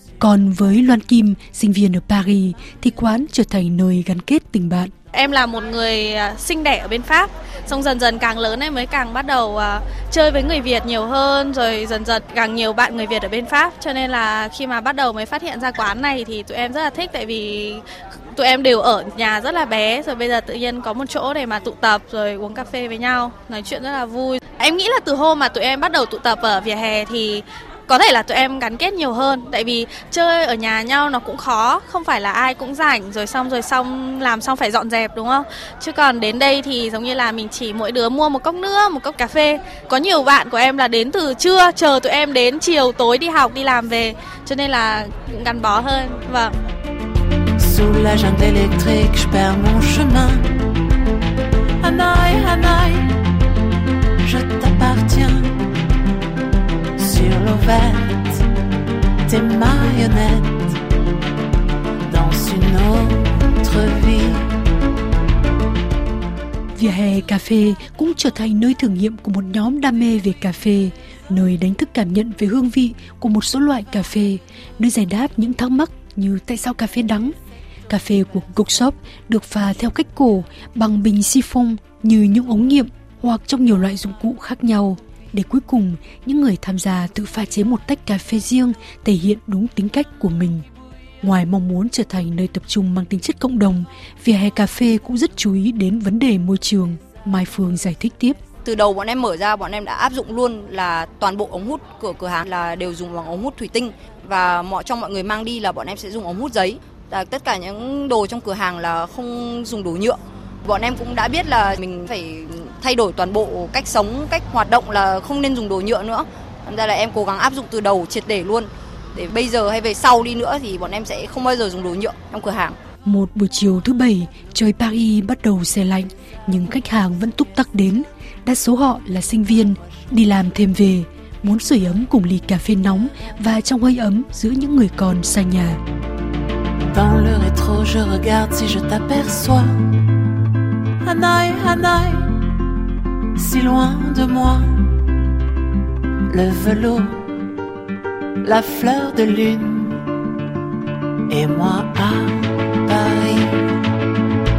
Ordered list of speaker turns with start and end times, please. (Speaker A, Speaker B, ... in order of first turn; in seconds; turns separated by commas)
Speaker A: 0.2-4.9, Speaker B: 5.1-46.5, Speaker C: 47.6-50.7, Speaker C: 51.8-53.2, Speaker C: 54.2-55.7, Speaker C: 57.0-58.4, Speaker C: 59.3-60.8, Speaker C: 62.1-64.5, Speaker A: 66.8-77.3, Speaker A: 77.9-90.7, Speaker A: 91.2-98.4, Speaker D: 98.7-122.8, Speaker A: 123.0-135.8, Speaker C: 136.9-139.9, Speaker C: 141.0-142.4, Speaker C: 143.3-145.0, Speaker C: 146.3-147.3, Speaker C: 148.4-150.1, Speaker C: 151.3-153.7